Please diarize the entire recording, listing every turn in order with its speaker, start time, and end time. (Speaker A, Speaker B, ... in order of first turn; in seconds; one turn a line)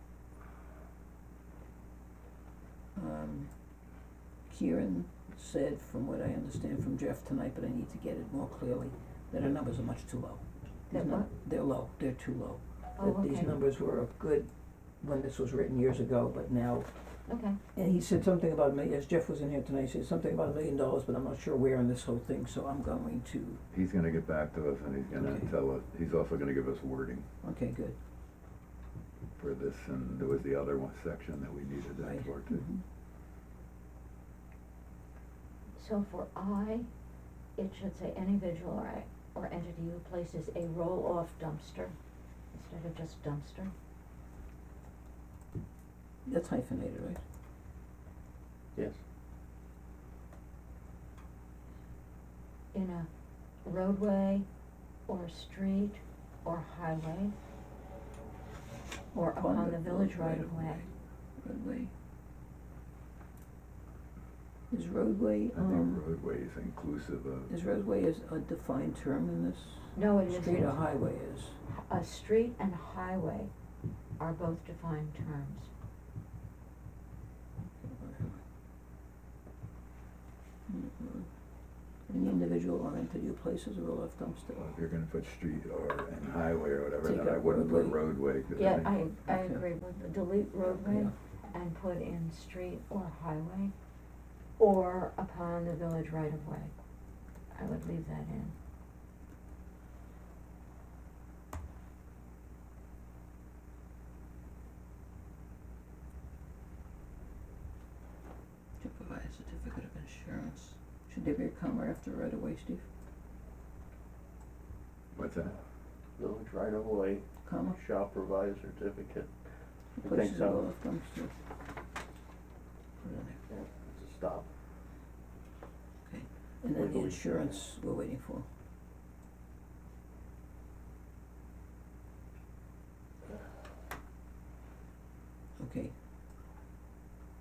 Speaker A: 3.0-3.5
Speaker A: 4.5-16.9
Speaker B: 10.9-11.3
Speaker B: 13.0-13.5
Speaker B: 17.3-17.6
Speaker A: 17.7-23.6
Speaker C: 23.7-27.3
Speaker A: 25.1-25.5
Speaker A: 27.4-28.0
Speaker C: 29.4-32.6
Speaker A: 32.0-32.8
Speaker B: 35.8-36.9
Speaker B: 37.5-42.0
Speaker B: 42.5-43.7
Speaker A: 46.2-47.2
Speaker B: 52.7-53.1
Speaker B: 53.6-54.5
Speaker B: 55.1-57.3
Speaker B: 59.1-60.9
Speaker A: 59.2-61.9
Speaker A: 64.7-66.0
Speaker C: 65.5-67.5
Speaker A: 67.5-71.6
Speaker B: 69.9-70.8
Speaker B: 71.7-73.5
Speaker B: 74.2-75.7
Speaker A: 77.8-78.4
Speaker A: 80.7-81.3
Speaker A: 82.1-84.6
Speaker C: 84.6-89.0
Speaker A: 87.0-88.0
Speaker B: 88.5-93.7
Speaker A: 89.2-89.6
Speaker A: 90.7-91.1
Speaker B: 94.6-96.7
Speaker B: 97.5-98.5
Speaker A: 108.8-112.8
Speaker C: 115.1-115.6
Speaker D: 116.2-119.3
Speaker A: 117.4-117.8
Speaker A: 120.0-121.3
Speaker D: 120.0-120.7
Speaker A: 123.0-123.4
Speaker D: 123.5-124.5
Speaker A: 126.0-128.5
Speaker D: 126.7-127.5
Speaker A: 135.6-135.9